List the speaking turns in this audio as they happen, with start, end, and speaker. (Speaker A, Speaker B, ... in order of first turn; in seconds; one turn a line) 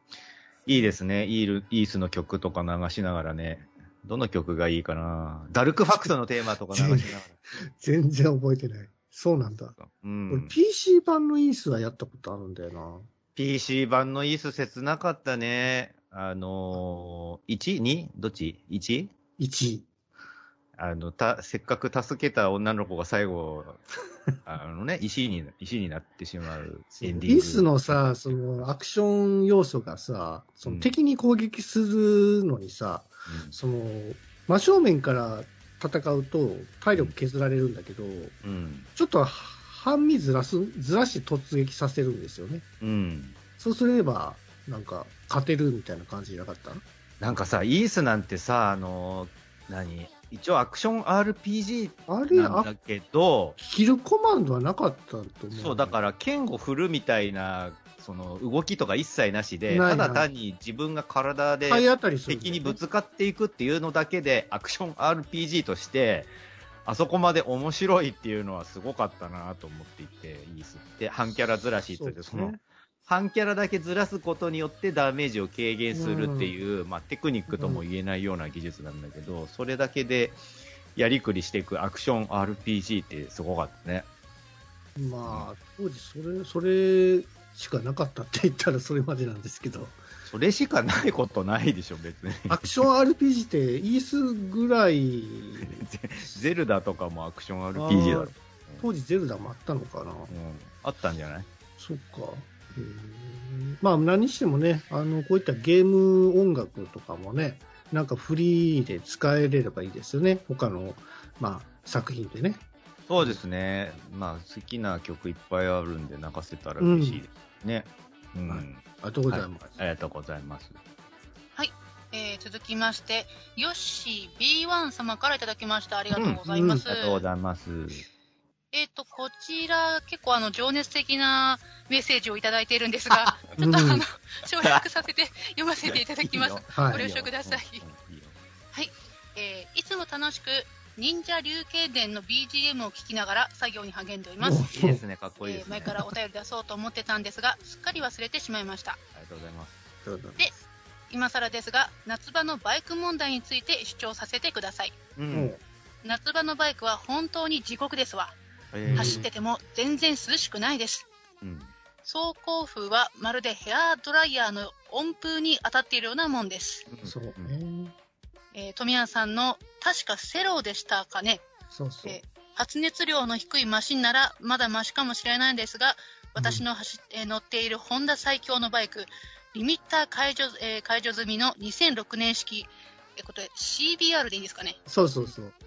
Speaker A: 0.7-7.3
Speaker B: 6.7-9.8
Speaker A: 9.8-10.5
Speaker B: 10.3-13.1
Speaker A: 13.3-19.1
Speaker B: 19.4-19.9
Speaker A: 20.8-23.8
Speaker A: 24.4-27.7
Speaker B: 27.0-38.3
Speaker A: 33.3-33.5
Speaker A: 38.4-38.9
Speaker B: 38.9-42.6
Speaker A: 42.8-43.4
Speaker B: 43.6-46.8
Speaker A: 47.2-53.6
Speaker B: 52.1-52.7
Speaker B: 53.6-56.0
Speaker A: 55.5-66.3
Speaker B: 59.7-60.3
Speaker B: 61.7-62.8
Speaker A: 66.8-72.5
Speaker B: 72.0-72.6
Speaker A: 73.1-80.4
Speaker B: 75.9-76.5
Speaker B: 77.5-77.8
Speaker A: 81.0-84.0
Speaker B: 85.0-90.0
Speaker A: 90.2-92.8
Speaker B: 92.5-95.8
Speaker A: 95.6-98.8
Speaker B: 97.7-100.3
Speaker A: 100.3-101.5
Speaker B: 101.8-112.6
Speaker A: 113.1-120.8
Speaker B: 116.8-117.2
Speaker B: 118.5-119.8
Speaker C: 121.5-127.2
Speaker A: 126.1-128.0
Speaker B: 126.5-126.8
Speaker C: 128.7-137.8
Speaker A: 133.1-133.4
Speaker B: 133.6-134.0
Speaker A: 135.9-138.4
Speaker B: 136.7-137.0
Speaker C: 138.7-144.7
Speaker B: 144.4-145.0
Speaker A: 144.7-146.1
Speaker C: 145.4-149.0
Speaker A: 149.1-149.8
Speaker B: 150.0-150.5
Speaker C: 151.1-155.0
Speaker A: 155.2-155.5
Speaker B: 155.3-155.6
Speaker C: 156.0-158.3
Speaker A: 158.7-159.2
Speaker B: 158.8-159.2
Speaker C: 158.9-161.1
Speaker A: 161.4-161.7
Speaker C: 162.0-166.9
Speaker A: 166.9-167.5
Speaker B: 167.0-167.9
Speaker C: 168.5-171.4
Speaker B: 171.7-172.2
Speaker C: 172.0-184.8
Speaker B: 176.3-176.6
Speaker B: 184.9-185.6